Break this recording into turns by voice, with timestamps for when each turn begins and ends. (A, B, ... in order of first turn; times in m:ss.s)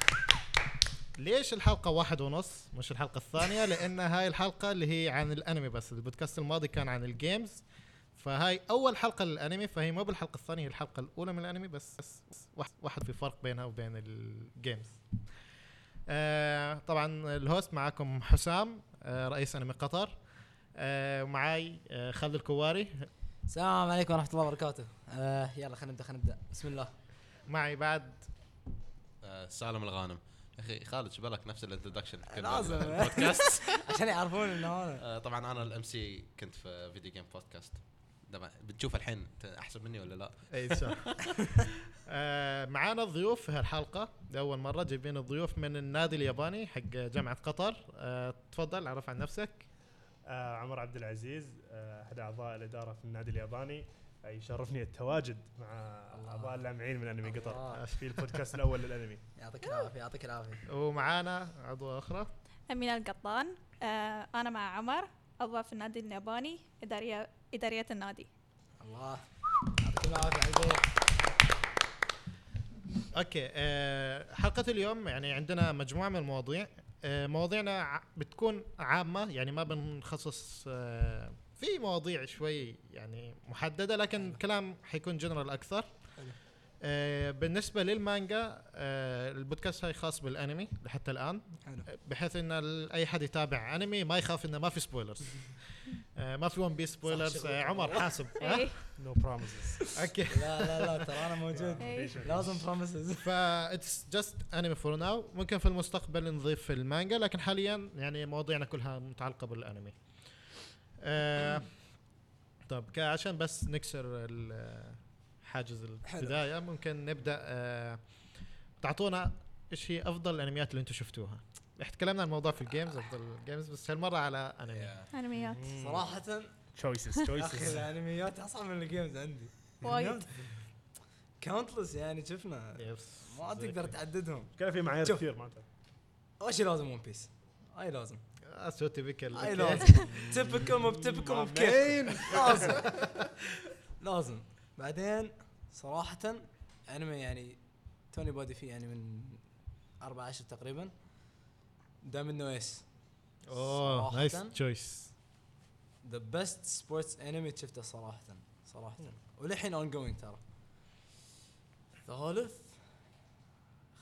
0:01.2-0:15.0 A
0:16.1-0:20.2 A
0:20.8-0:23.1 A
0:23.5-0:26.9 B
0:27.4-0:28.3 A
0:29.2-0:33.8 C
0:32.3-0:35.0 B
0:35.0-0:41.4 C
0:40.5-0:41.3 A
0:42.0-0:49.7 A
0:50.3-0:59.2 D
0:56.1-0:56.6 B
0:57.2-0:57.8 B
0:57.8-0:58.4 A
0:59.4-1:00.6 B
1:00.7-1:02.3 A
1:02.7-1:08.3 E
1:08.8-1:10.9 B
1:13.1-1:25.9 A
1:26.8-1:38.8 A
1:37.0-1:38.2 B
1:38.4-1:38.8 E
1:39.0-1:39.9 D
1:39.8-1:43.3 B
1:40.0-1:41.0 A
1:41.5-1:42.7 D
1:41.8-1:42.2 E
1:43.2-1:50.0 A
1:51.0-1:51.7 A
1:52.7-1:58.0 A
1:56.1-1:56.4 B
1:58.8-2:05.0 A
2:04.7-2:05.1 C
2:05.1-2:05.6 E
2:05.3-2:06.2 D
2:05.7-2:06.5 B
2:06.7-2:07.9 D
2:07.4-2:10.6 B
2:09.8-2:10.3 E
2:11.4-2:15.2 B
2:12.8-2:13.4 A
2:13.5-2:13.9 D
2:14.6-2:15.6 D
2:16.4-2:18.2 B
2:18.4-2:20.2 A
2:19.3-2:23.0 B
2:20.0-2:22.9 D
2:24.0-2:29.4 B
2:30.0-2:30.9 B
2:32.0-2:32.9 B
2:33.5-2:35.1 A
2:33.5-2:34.6 B
2:36.0-2:40.4 B
2:42.1-2:42.8 B